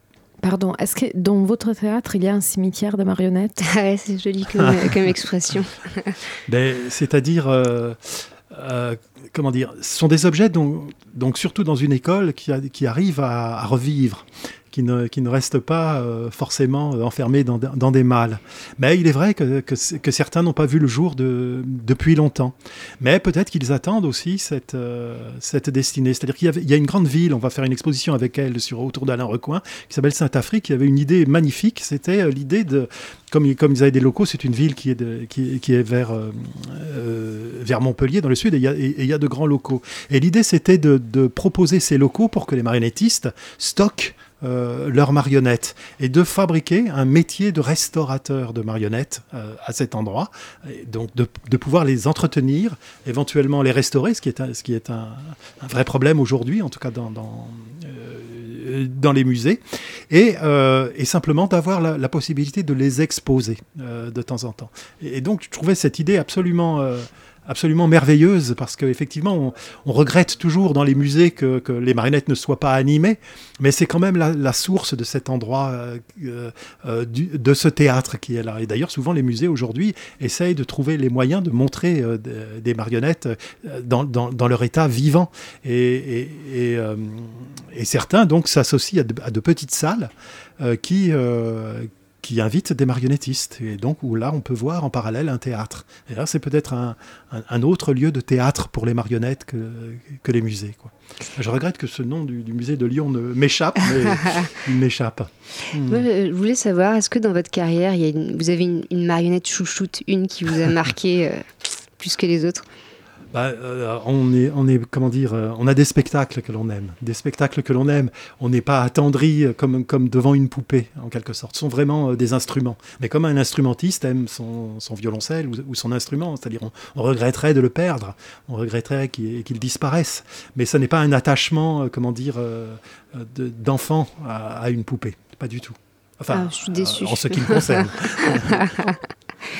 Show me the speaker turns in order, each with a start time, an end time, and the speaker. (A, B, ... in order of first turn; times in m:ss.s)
0:00.4-0:03.6 A
0:03.6-0:06.1 B
0:06.5-1:46.0 C
1:45.8-1:51.5 B
1:52.0-1:52.6 B
1:53.3-2:18.7 C
2:16.3-2:19.0 B